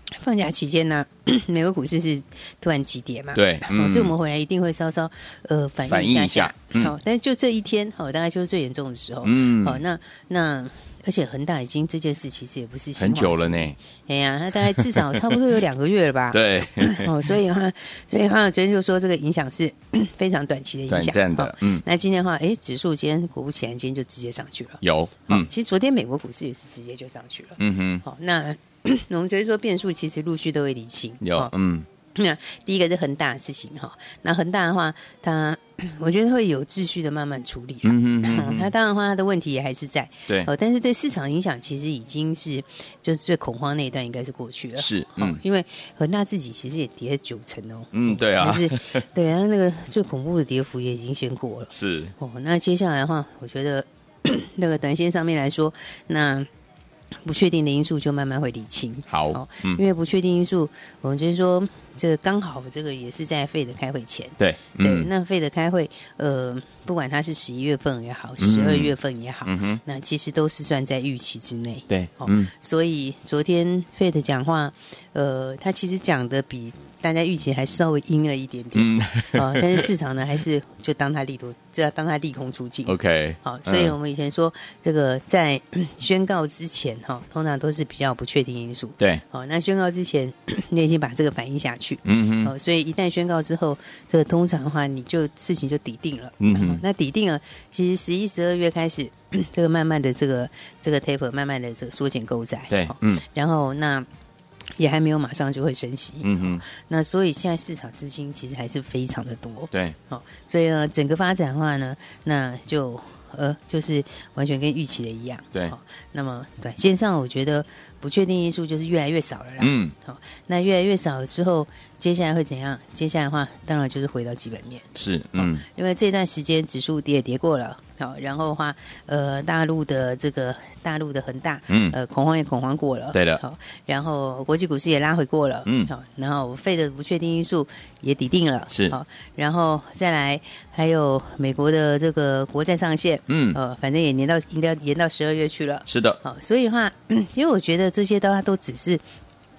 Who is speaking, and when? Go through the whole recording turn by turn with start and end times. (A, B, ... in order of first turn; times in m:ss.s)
0:00.2-0:31.5 A
0:03.4-0:04.1 B
0:05.9-0:06.9 B
0:09.2-0:09.8 B
0:13.0-0:13.8 B
0:14.7-0:15.4 B
0:16.3-0:17.1 B
0:20.9-0:21.8 B
0:24.8-0:25.5 B
0:27.6-0:28.0 B
0:31.2-0:31.9 B
0:32.2-0:56.5 A
0:37.8-0:38.7 B
0:44.8-0:45.4 B
0:47.9-0:49.0 B
0:51.7-0:52.1 B
0:57.2-1:44.1 A
0:59.1-0:59.8 B
1:04.4-1:05.1 B
1:08.4-1:09.8 B
1:11.9-1:12.5 B
1:18.8-1:19.9 B
1:22.9-1:24.0 B
1:32.0-1:32.5 B
1:36.4-1:36.8 B
1:42.7-1:43.2 B
1:44.8-2:29.0 A
1:46.2-1:46.6 B
1:59.6-1:59.9 B
2:05.0-2:05.6 B
2:11.7-2:12.0 B
2:13.1-2:13.4 B
2:15.7-2:15.9 B
2:18.7-2:19.0 B
2:23.3-2:23.6 B
2:25.9-2:26.2 B